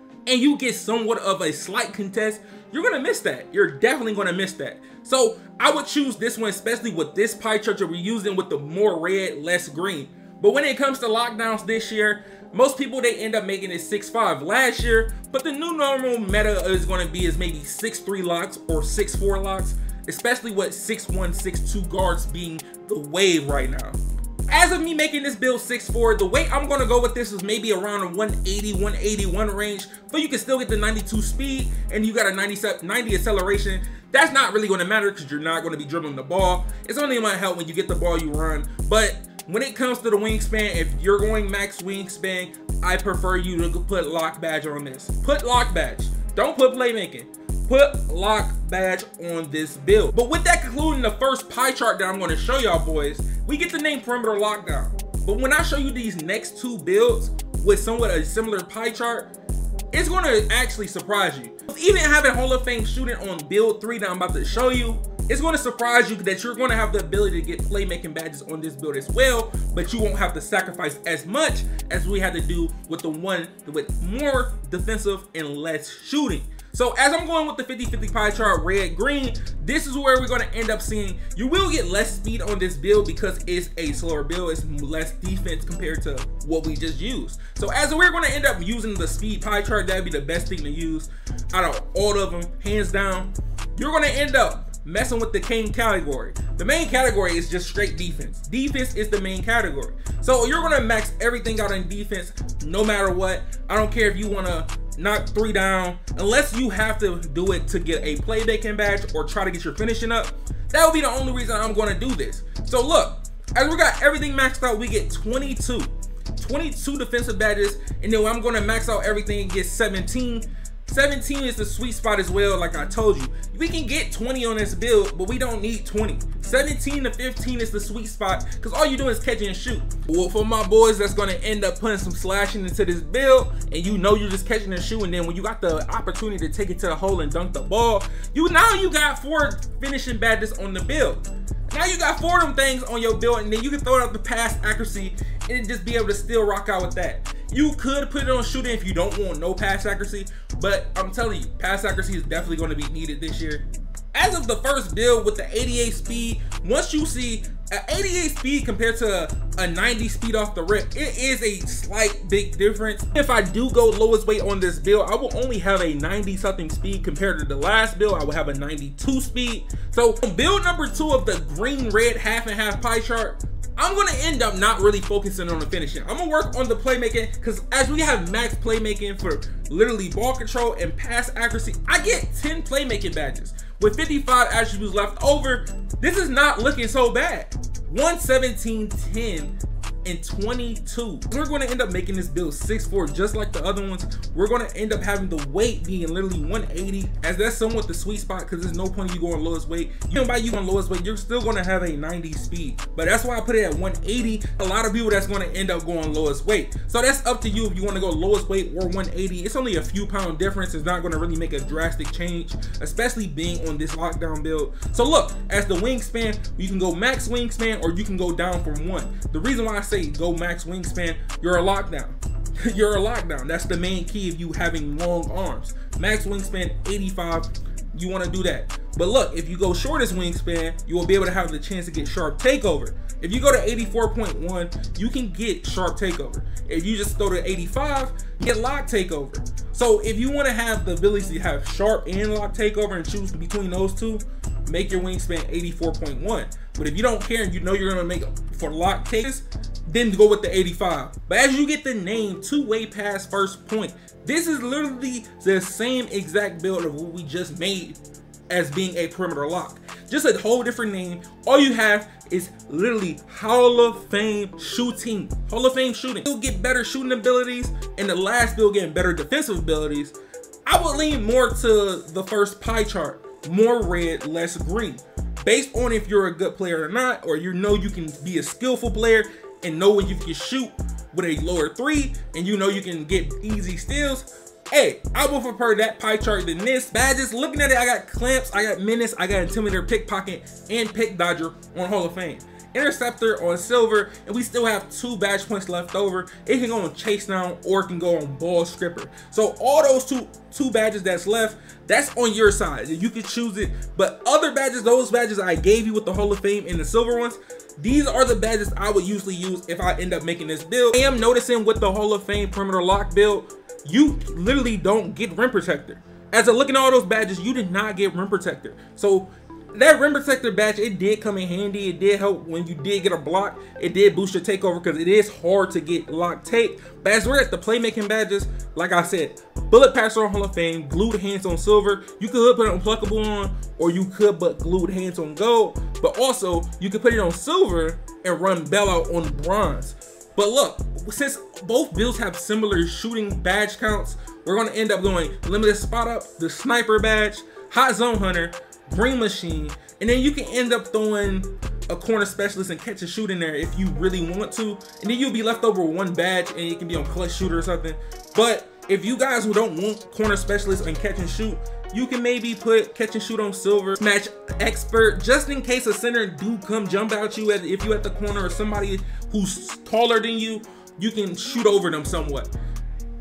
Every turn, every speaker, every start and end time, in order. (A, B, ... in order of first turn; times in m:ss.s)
0:00.2-0:59.3 A
0:59.9-6:12.5 A